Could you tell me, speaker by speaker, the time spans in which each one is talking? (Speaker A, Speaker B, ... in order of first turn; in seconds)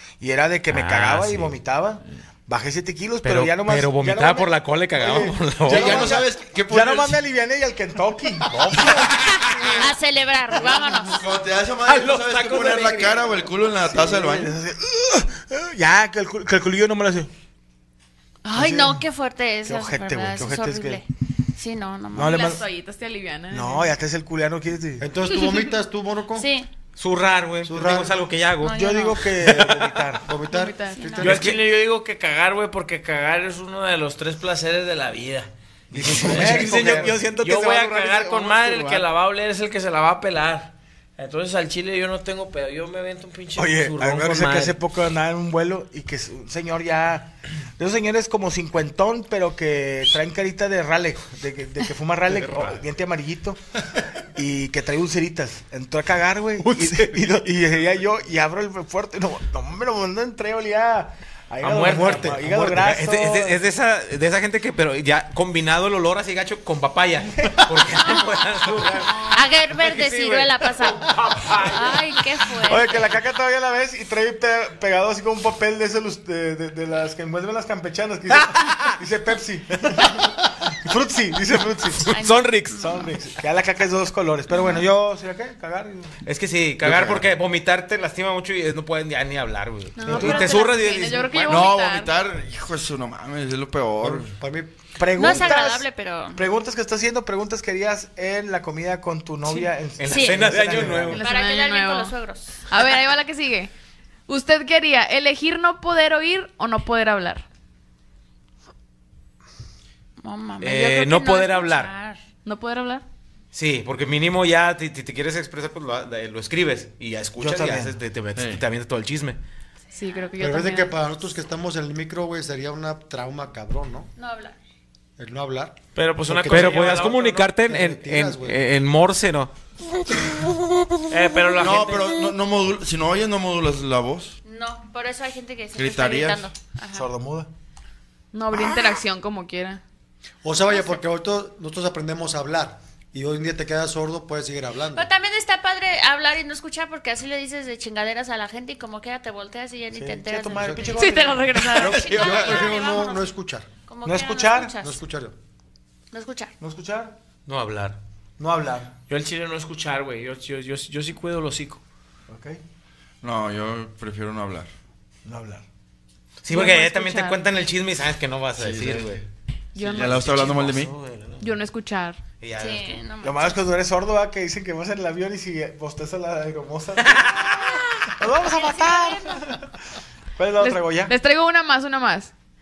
Speaker A: 0.2-9.9, 10.6-11.0, 11.9-17.3, 18.5-19.0, 19.6-21.0, 22.1-22.6, 23.5-25.1, 28.7-30.2, 35.9-39.0, 43.5-53.6, 54.3-63.6, 67.3-68.0, 68.8-69.1, 72.5-86.2, 90.1-90.5, 95.0-101.2, 117.4-118.0, 136.9-137.5, 149.9-151.7, 154.0-154.7, 156.6-157.1, 158.4-158.9, 162.3-162.6, 165.2-165.6, 173.2-177.6, 178.1-179.7, 180.4-181.1
Speaker B: 0.7-1.6, 3.2-6.2, 26.9-28.8, 31.3-31.5, 36.4-37.3, 52.3-52.8, 56.6-57.3, 61.6-70.6, 78.4-78.9, 82.1-82.9, 86.2-91.7, 100.0-101.2, 110.6-111.9, 113.5-119.4, 126.5-129.5, 157.4-158.0, 166.4-169.2, 169.8-171.5, 172.4-173.0, 177.0-177.7
Speaker C: 5.6-7.2, 11.0-14.5, 86.8-87.2, 91.4-94.3, 118.3-118.6, 131.6-134.4, 135.8-136.5, 151.8-152.7, 163.2-164.7, 168.6-169.2, 169.8-170.9
Speaker D: 9.7-11.3, 18.4-22.4, 26.3-26.7, 28.6-29.4, 30.9-31.4, 68.0-68.5, 69.1-73.0, 82.1-83.1, 95.1-96.4, 100.0-100.6, 101.2-102.6, 110.2-112.2, 119.9-120.3, 124.2-124.6, 134.4-137.1, 140.7-141.0, 144.9-151.1, 151.7-153.3, 153.9-155.0, 156.1-156.5, 172.6-173.6, 177.4-177.8, 178.3-179.4
Speaker E: 22.1-23.9, 30.5-31.2, 90.0-92.1, 99.5-99.7, 101.1-102.1, 102.7-103.7, 104.3-107.4, 112.4-113.0, 120.0-121.0, 138.3-139.8, 150.9-152.2, 166.5-167.4, 169.7-170.4, 171.4-172.2, 180.6-182.3
Speaker F: 25.0-26.5, 27.6-28.2, 30.2-31.6, 35.9-37.1, 61.8-62.4, 94.0-94.7, 120.4-124.1, 125.2-128.6, 140.4-145.1, 150.5-150.9, 151.8-153.7, 154.8-155.3
Speaker G: 31.2-44.8, 61.6-62.4, 71.0-72.0, 125.9-127.5, 131.1-132.2, 159.1-161.8